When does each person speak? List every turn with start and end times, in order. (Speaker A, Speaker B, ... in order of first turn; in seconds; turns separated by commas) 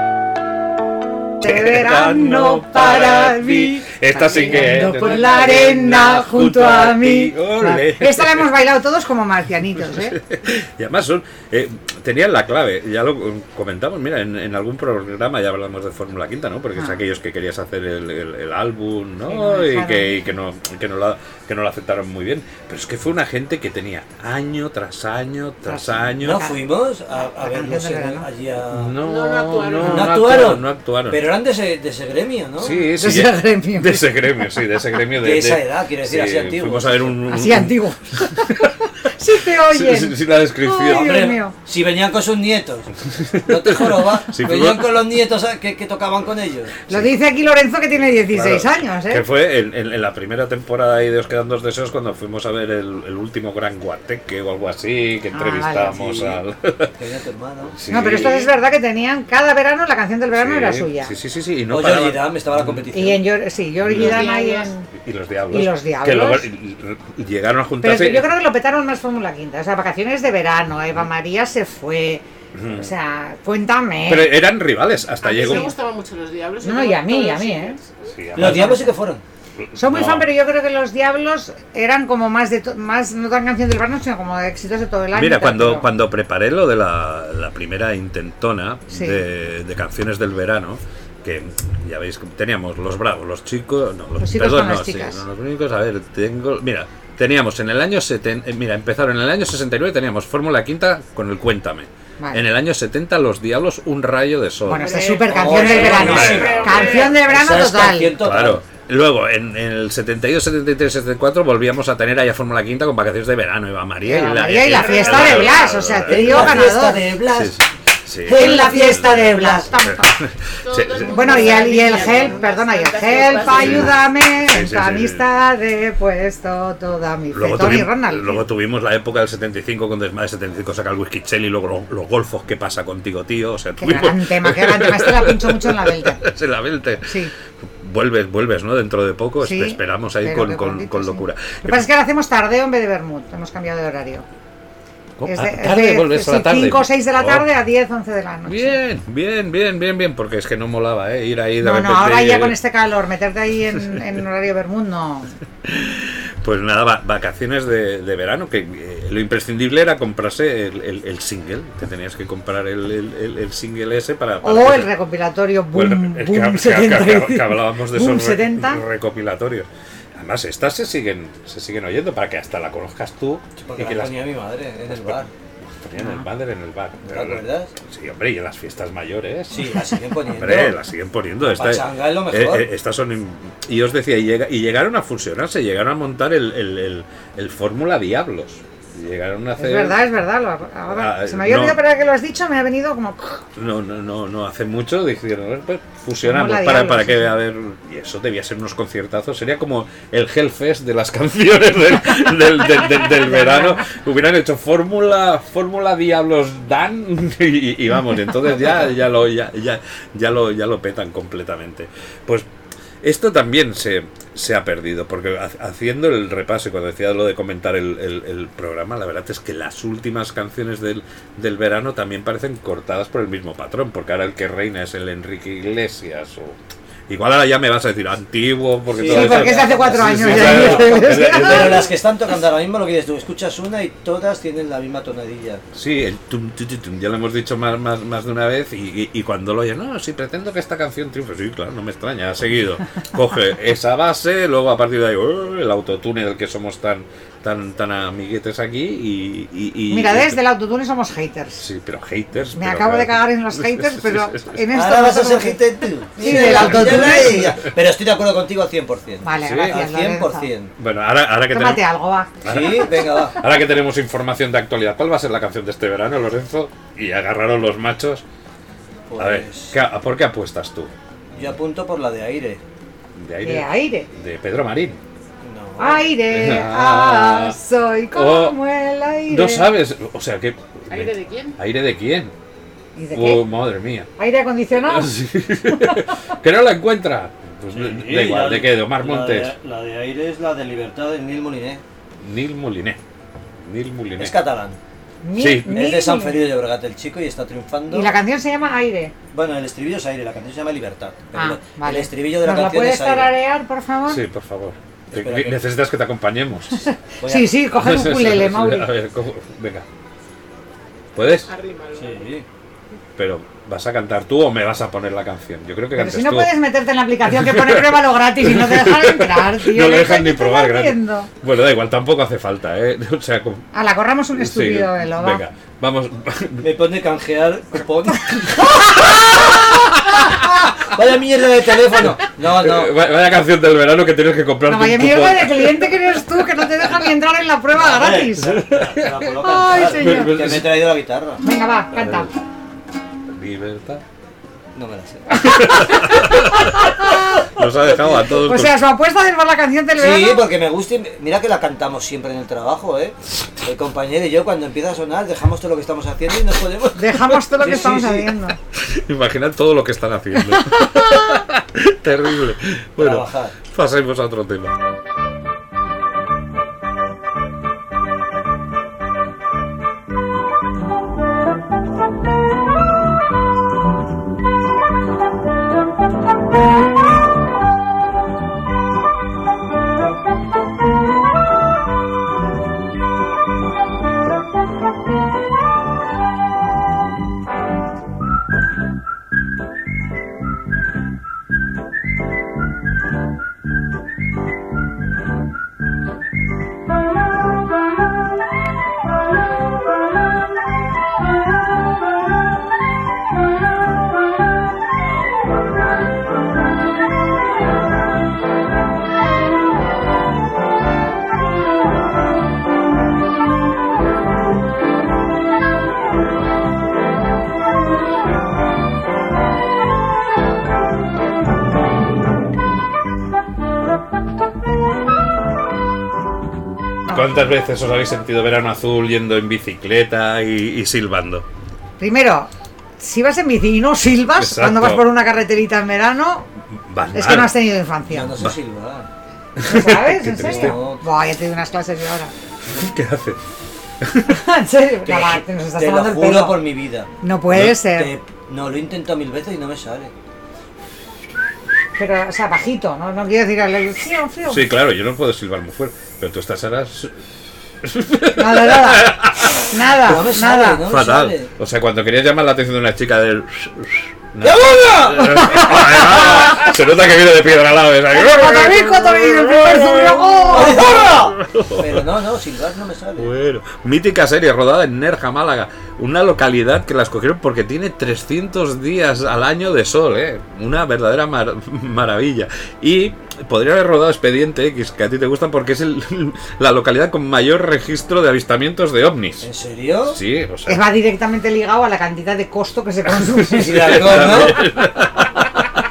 Speaker A: 1.4-10.2, Speaker B: 1.4-8.5, Speaker B: 9.8-26.5, Speaker A: 19.3-20.2, Speaker A: 25.7-26.6, Speaker C: 26.2-29.0, Speaker A: 27.1-28.2, Speaker B: 28.7-31.2, Speaker D: 29.0-30.1, Speaker C: 29.8-32.8, Speaker B: 32.6-38.7, Speaker A: 32.9-34.1, Speaker C: 35.2-37.1, Speaker A: 37.3-41.5, Speaker B: 39.6-41.3, Speaker C: 40.9-42.9, Speaker B: 43.1-45.0, Speaker C: 43.5-46.8, Speaker A: 46.9-49.2, Speaker B: 48.3-57.0, Speaker A: 55.3-56.0, Speaker C: 56.0-56.4, Speaker C: 56.9-57.8, Speaker B: 57.8-58.5, Speaker A: 57.9-61.1, Speaker B: 60.3-62.8, Speaker C: 61.7-63.2, Speaker A: 62.9-64.9, Speaker B: 63.8-64.3, Speaker D: 63.9-64.7, Speaker B: 64.9-68.3, Speaker A: 65.5-66.5, Speaker A: 67.8-74.3, Speaker B: 72.5-72.9, Speaker B: 74.0-75.7, Speaker D: 75.2-78.1, Speaker A: 75.3-75.7, Speaker A: 76.6-77.8, Speaker B: 78.1-78.8, Speaker C: 78.3-79.2, Speaker A: 78.4-78.9, Speaker B: 79.6-80.3, Speaker A: 79.8-85.8, Speaker B: 85.1-105.0, Speaker A: 88.9-89.2, Speaker A: 94.2-95.2, Speaker A: 102.2-102.4, Speaker A: 104.7-108.1, Speaker D: 104.7-107.2, Speaker C: 105.3-108.6, Speaker B: 105.5-106.9, Speaker B: 108.2-122.3, Speaker A: 114.0-117.0, Speaker C: 114.9-117.6, Speaker C: 118.2-119.7, Speaker A: 118.3-120.2, Speaker D: 120.6-124.0, Speaker A: 121.0-128.4, Speaker B: 123.3-125.2, Speaker B: 127.3-141.8, Speaker A: 133.8-136.2, Speaker A: 137.1-137.3, Speaker A: 139.4-144.2, Speaker B: 145.2-147.5, Speaker A: 145.3-148.8, Speaker B: 148.5-152.6, Speaker A: 151.6-155.3, Speaker B: 155.6-164.9, Speaker A: 164.4-168.8, Speaker B: 165.7-174.2, Speaker C: 173.6-175.3, Speaker B: 174.9-175.2, Speaker B: 175.8-179.8, Speaker A: 176.0-176.2, Speaker C: 177.0-177.7, Speaker C: 179.5-180.8, Speaker B: 180.3-190.0, Speaker C: 181.4-182.7, Speaker A: 189.6-193.4, Speaker B: 190.9-191.8, Speaker B: 193.6-212.5, Speaker A: 196.2-197.3, Speaker A: 203.0-203.8, Speaker B: 213.0-231.9, Speaker C: 228.9-235.6, Speaker A: 229.1-231.8, Speaker B: 235.7-250.4, Speaker A: 249.9-251.6, Speaker B: 251.6-254.6, Speaker A: 252.5-255.6, Speaker C: 254.7-260.7, Speaker A: 256.2-257.5, Speaker B: 256.2-257.5, Speaker A: 259.2-260.5, Speaker B: 259.4-259.8, Speaker B: 260.8-261.9, Speaker A: 261.5-262.4, Speaker B: 262.4-268.2, Speaker C: 262.4-263.4, Speaker C: 269.1-269.7, Speaker B: 269.2-270.9, Speaker C: 271.3-272.6, Speaker B: 273.1-275.0, Speaker A: 273.4-274.1, Speaker C: 275.4-276.1, Speaker A: 275.8-279.7, Speaker B: 276.3-277.6, Speaker B: 278.1-278.6, Speaker B: 279.3-282.3, Speaker D: 280.9-281.6, Speaker A: 282.9-283.5, Speaker B: 283.1-284.1, Speaker A: 284.2-285.1, Speaker B: 284.8-289.5, Speaker C: 287.7-291.8, Speaker B: 292.2-293.0, Speaker B: 293.6-294.4, Speaker C: 294.2-294.8, Speaker A: 295.2-296.3, Speaker B: 295.4-295.8, Speaker C: 295.7-298.1, Speaker A: 297.9-299.1, Speaker C: 299.3-303.3, Speaker A: 301.3-304.2, Speaker B: 304.1-306.8, Speaker C: 305.1-305.6, Speaker A: 306.8-308.9, Speaker C: 307.2-307.5, Speaker B: 307.7-309.9, Speaker B: 311.1-311.5, Speaker D: 311.4-312.3, Speaker C: 311.9-312.4, Speaker B: 313.1-316.5, Speaker A: 315.9-321.3, Speaker B: 317.2-323.7, Speaker A: 323.7-325.4, Speaker B: 324.3-326.7, Speaker C: 326.6-332.9, Speaker B: 332.4-335.9, Speaker A: 334.7-338.6, Speaker C: 337.7-341.4, Speaker B: 338.6-339.2, Speaker A: 339.4-340.3, Speaker B: 339.8-340.8, Speaker A: 341.4-342.3, Speaker B: 341.9-342.3, Speaker B: 343.3-344.0, Speaker C: 344.7-346.0, Speaker B: 345.4-348.8, Speaker A: 346.9-347.2, Speaker C: 347.9-348.3, Speaker A: 348.4-350.4, Speaker C: 350.0-358.3, Speaker A: 356.9-358.6, Speaker B: 358.8-364.7, Speaker C: 363.0-363.6, Speaker B: 427.1-431.4, Speaker A: 432.0-436.5, Speaker B: 434.4-435.1, Speaker B: 436.8-437.5, Speaker A: 437.1-438.4, Speaker C: 438.1-439.1, Speaker B: 439.6-440.8, Speaker A: 439.6-442.3, Speaker C: 440.4-441.0, Speaker B: 442.7-443.4, Speaker B: 444.0-444.4, Speaker A: 444.3-446.6, Speaker C: 445.1-450.1, Speaker A: 447.2-448.1, Speaker A: 452.0-454.7, Speaker B: 454.4-457.2, Speaker B: 457.8-459.7, Speaker A: 458.4-460.8, Speaker C: 460.0-461.5, Speaker B: 460.8-472.1, Speaker C: 464.4-466.2, Speaker A: 468.1-471.1, Speaker C: 470.5-473.3, Speaker B: 473.2-489.5, Speaker C: 489.4-490.2, Speaker B: 490.1-490.8, Speaker A: 490.7-494.2, Speaker C: 493.4-494.6, Speaker B: 493.7-495.6